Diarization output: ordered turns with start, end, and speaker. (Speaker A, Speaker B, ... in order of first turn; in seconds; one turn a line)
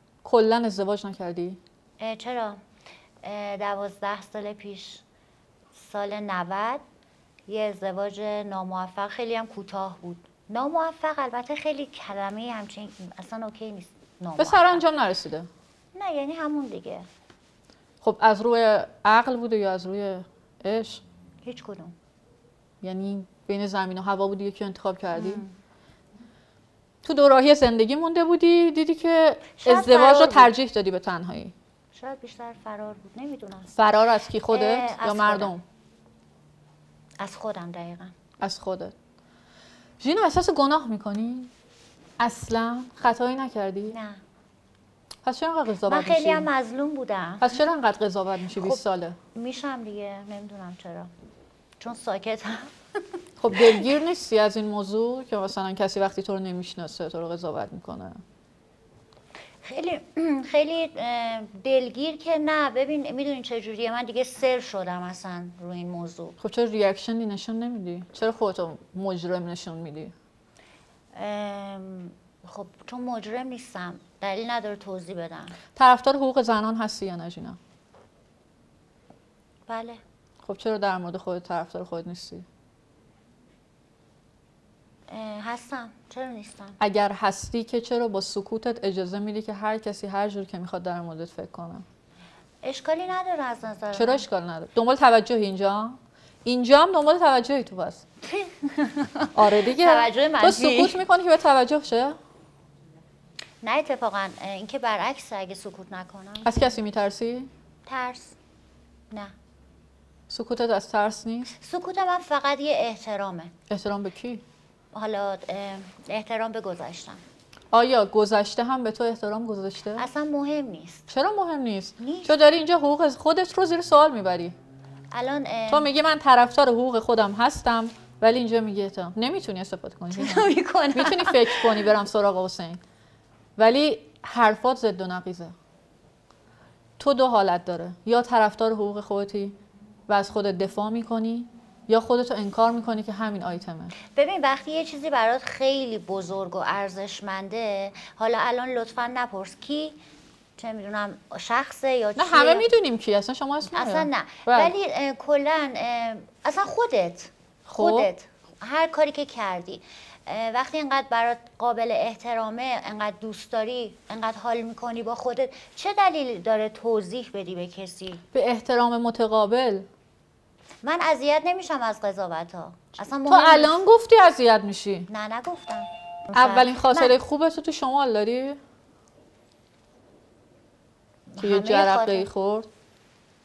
Speaker A: 0.2-1.6
Speaker B: 2.0-2.6
Speaker B: 3.2-5.0
Speaker B: 5.7-6.8
Speaker B: 7.5-14.8
Speaker A: 14.4-15.5
Speaker B: 15.9-17.1
Speaker A: 18.0-21.0
Speaker B: 21.4-21.9
Speaker A: 22.8-25.4
Speaker B: 25.1-25.5
Speaker A: 27.0-31.5
Speaker B: 29.6-30.5
Speaker B: 31.9-33.7
Speaker A: 33.7-35.6
Speaker B: 34.5-35.5
Speaker B: 37.2-38.1
Speaker A: 38.4-38.9
Speaker A: 40.0-41.5
Speaker A: 42.2-44.0
Speaker B: 43.9-44.2
Speaker A: 45.2-46.5
Speaker B: 45.9-47.5
Speaker A: 47.4-49.2
Speaker B: 48.5-48.8
Speaker B: 49.4-51.1
Speaker B: 51.8-52.7
Speaker A: 53.4-58.2
Speaker B: 53.6-53.9
Speaker B: 59.6-66.3
Speaker A: 66.4-70.2
Speaker B: 71.2-75.6
Speaker A: 75.8-77.6
Speaker B: 79.7-80.0
Speaker A: 80.4-82.5
Speaker B: 85.1-86.8
Speaker A: 86.8-91.8
Speaker B: 92.6-94.2
Speaker A: 93.9-98.0
Speaker B: 98.3-101.0
Speaker A: 99.3-102.2
Speaker B: 103.6-106.7
Speaker A: 106.4-107.5
Speaker B: 107.9-108.4
Speaker A: 110.3-111.5
Speaker B: 111.6-113.5
Speaker A: 113.7-114.4
Speaker B: 114.9-117.2
Speaker A: 117.7-120.1
Speaker B: 120.0-121.1
Speaker A: 121.1-124.5
Speaker B: 122.0-122.4
Speaker B: 125.1-125.9
Speaker A: 125.7-132.8
Speaker B: 130.1-131.9
Speaker A: 133.6-135.6
Speaker A: 137.0-139.6
Speaker A: 140.1-143.9
Speaker B: 144.1-150.0
Speaker B: 150.6-152.7
Speaker A: 152.2-154.7
Speaker B: 153.7-168.2
Speaker A: 157.7-158.1
Speaker A: 168.3-169.9
Speaker B: 170.8-173.8
Speaker A: 173.3-175.1
Speaker B: 175.1-177.2
Speaker A: 176.3-178.6
Speaker B: 181.3-182.3
Speaker A: 181.4-182.7